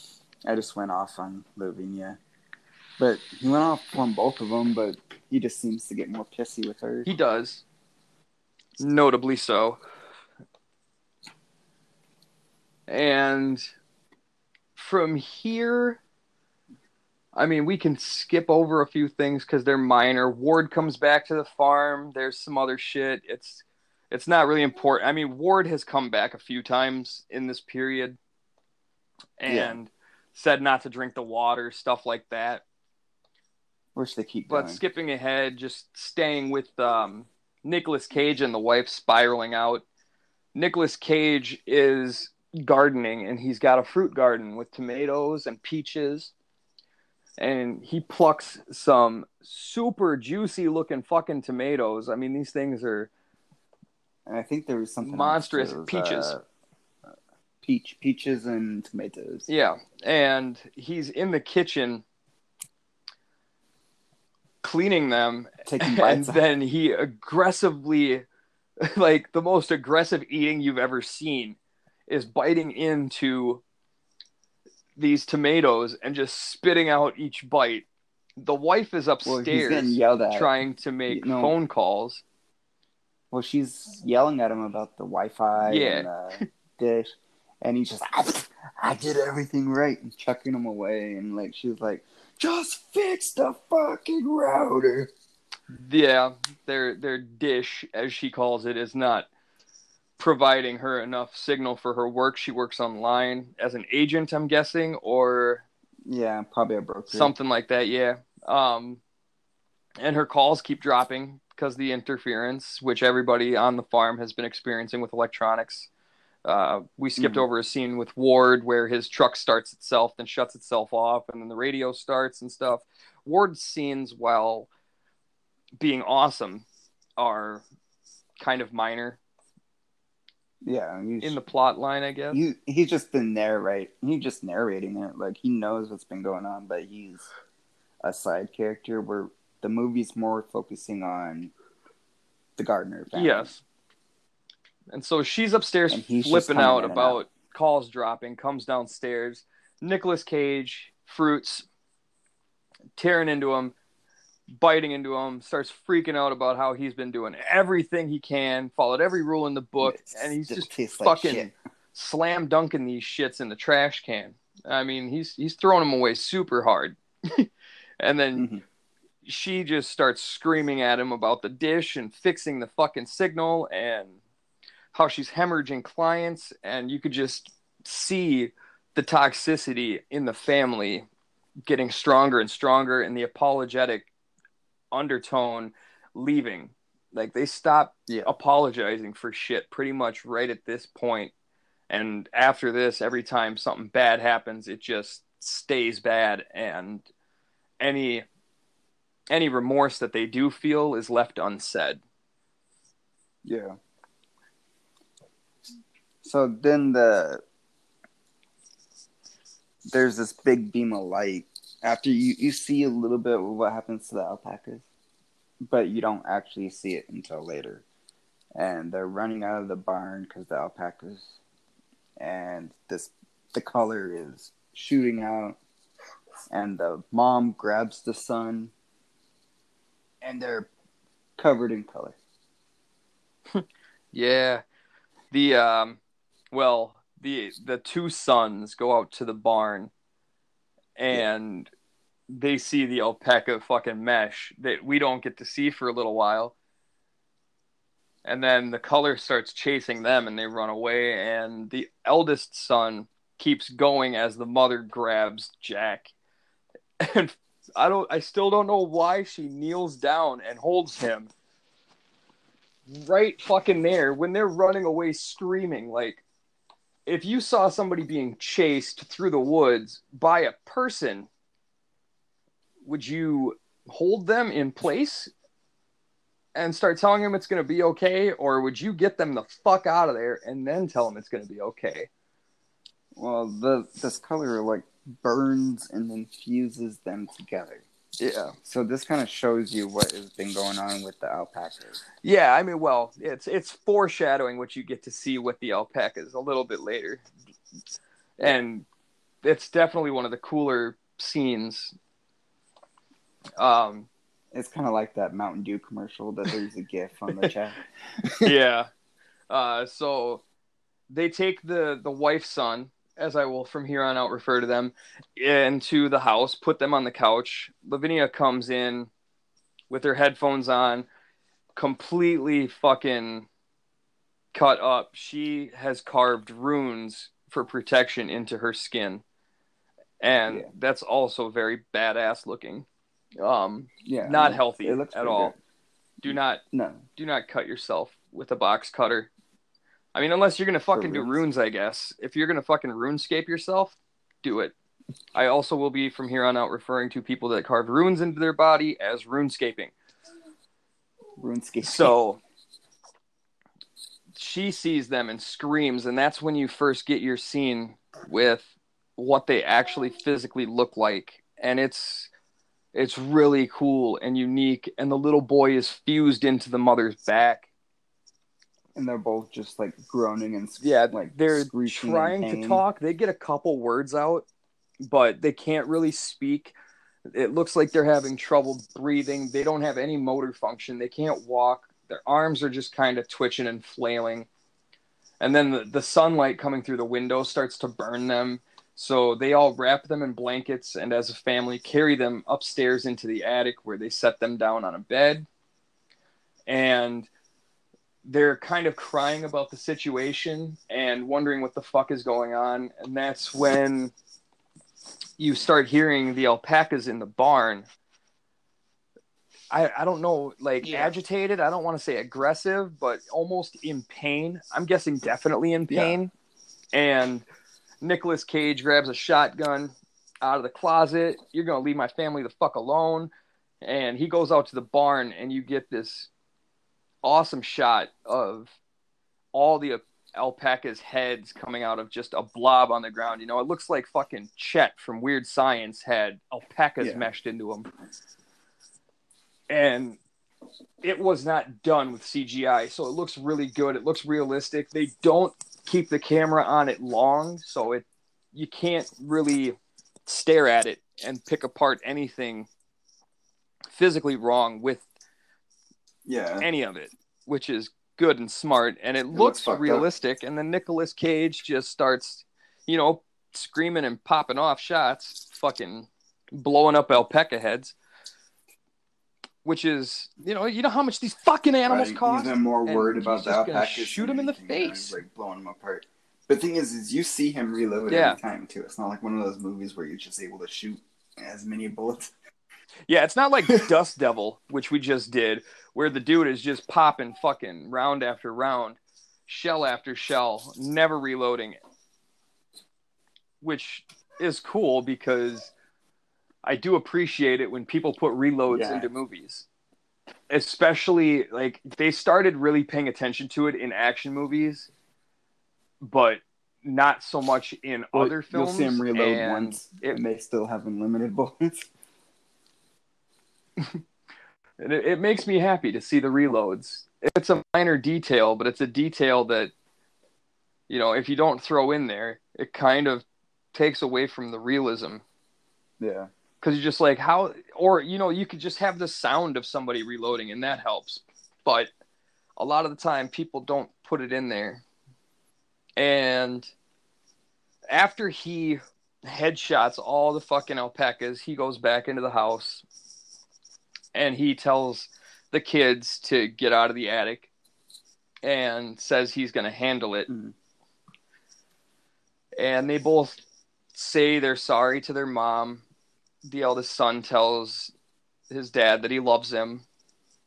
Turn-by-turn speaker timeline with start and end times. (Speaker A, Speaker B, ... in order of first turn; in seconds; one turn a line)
Speaker A: 0.5-2.2
Speaker A: 3.0-7.1
Speaker B: 7.0-7.6
Speaker B: 8.8-9.8
Speaker B: 12.9-13.7
Speaker B: 14.8-16.0
Speaker B: 17.3-28.2
Speaker B: 29.4-32.6
Speaker A: 29.5-29.8
Speaker A: 34.0-34.8
Speaker B: 34.5-39.8
Speaker B: 40.5-46.3
Speaker B: 47.4-53.1
Speaker A: 54.2-56.4
Speaker B: 55.0-56.3
Speaker A: 57.6-59.5
Speaker B: 59.5-62.0
Speaker B: 64.6-68.2
Speaker A: 65.6-66.4
Speaker B: 68.8-73.6
Speaker B: 75.0-77.8
Speaker B: 78.4-82.2
Speaker A: 79.2-80.5
Speaker A: 81.1-81.5
Speaker A: 83.3-87.1
Speaker B: 85.7-86.4
Speaker A: 87.6-95.1
Speaker B: 95.7-99.3
Speaker B: 100.2-105.6
Speaker A: 106.0-107.3
Speaker B: 107.1-109.0
Speaker B: 110.0-115.9
Speaker B: 116.4-124.7
Speaker A: 117.2-117.4
Speaker B: 125.8-126.7
Speaker B: 127.2-127.6
Speaker B: 128.4-129.2
Speaker A: 130.6-131.4
Speaker B: 131.2-132.4
Speaker A: 132.3-137.3
Speaker A: 138.0-141.5
Speaker A: 142.6-143.5
Speaker B: 143.1-143.6
Speaker B: 144.9-151.7
Speaker A: 145.9-147.2
Speaker B: 152.9-153.7
Speaker B: 154.5-168.5
Speaker A: 159.8-161.5
Speaker A: 168.3-168.6
Speaker B: 169.2-174.2
Speaker B: 174.9-181.1
Speaker B: 181.7-184.1
Speaker B: 184.9-191.3
Speaker B: 191.9-197.1
Speaker B: 197.8-198.2
Speaker B: 199.3-202.0
Speaker A: 203.4-203.8
Speaker A: 206.2-207.4
Speaker A: 209.8-214.8
Speaker A: 215.6-217.8
Speaker A: 218.5-221.4
Speaker A: 222.2-225.6
Speaker A: 226.5-228.7
Speaker A: 230.2-230.7
Speaker A: 231.4-232.2
Speaker B: 233.5-234.6
Speaker B: 235.3-236.0
Speaker B: 236.5-239.9
Speaker B: 241.0-241.7
Speaker B: 242.3-246.5
Speaker B: 248.2-256.1
Speaker B: 257.0-261.3
Speaker B: 262.9-266.2
Speaker B: 267.1-271.3
Speaker B: 272.8-275.3
Speaker B: 276.5-282.1
Speaker A: 283.1-287.8
Speaker B: 288.2-288.5
Speaker A: 288.6-292.0
Speaker B: 292.2-297.2
Speaker B: 298.4-298.9
Speaker B: 299.4-301.9
Speaker B: 303.6-304.1
Speaker A: 304.5-308.5
Speaker B: 308.4-308.9
Speaker B: 309.5-310.4
Speaker B: 311.1-319.1
Speaker B: 319.9-321.1
Speaker B: 321.7-323.5
Speaker B: 324.5-329.2
Speaker B: 330.2-332.9
Speaker B: 333.4-335.5
Speaker A: 334.0-335.6
Speaker B: 336.2-336.6
Speaker A: 336.7-337.0
Speaker B: 337.1-339.3
Speaker B: 340.1-344.7
Speaker A: 340.9-341.4
Speaker B: 345.3-349.9
Speaker A: 351.4-352.1
Speaker B: 351.8-352.4
Speaker B: 354.3-362.3
Speaker B: 362.9-367.7
Speaker A: 368.9-372.8
Speaker B: 370.8-374.4
Speaker B: 375.0-376.7
Speaker B: 377.2-384.5
Speaker B: 385.4-395.5
Speaker B: 396.7-397.3
Speaker B: 398.2-404.1
Speaker B: 405.4-407.9
Speaker B: 409.7-416.3
Speaker A: 410.8-411.1
Speaker A: 415.9-416.2
Speaker B: 416.9-417.5
Speaker B: 418.0-426.3
Speaker B: 427.2-428.7
Speaker B: 429.5-437.9
Speaker A: 437.0-437.3
Speaker B: 439.7-440.2
Speaker B: 441.0-452.7
Speaker B: 453.9-455.0
Speaker A: 456.2-456.7
Speaker B: 456.6-467.9
Speaker A: 459.3-460.1
Speaker B: 469.6-475.2
Speaker A: 471.9-482.3
Speaker B: 478.1-478.4
Speaker B: 483.1-491.8
Speaker B: 493.6-495.7
Speaker B: 496.6-499.6
Speaker A: 498.7-499.1
Speaker B: 500.5-504.9
Speaker B: 506.0-510.2
Speaker A: 508.1-511.9
Speaker B: 514.8-519.7
Speaker B: 520.9-525.2
Speaker A: 526.0-526.3
Speaker B: 526.6-531.9
Speaker B: 532.6-534.8
Speaker B: 536.0-536.7
Speaker B: 537.9-542.8
Speaker B: 544.1-547.5
Speaker B: 548.4-550.3
Speaker A: 550.3-550.5
Speaker B: 552.6-553.4
Speaker B: 553.9-555.8
Speaker B: 556.4-557.9
Speaker B: 558.5-559.8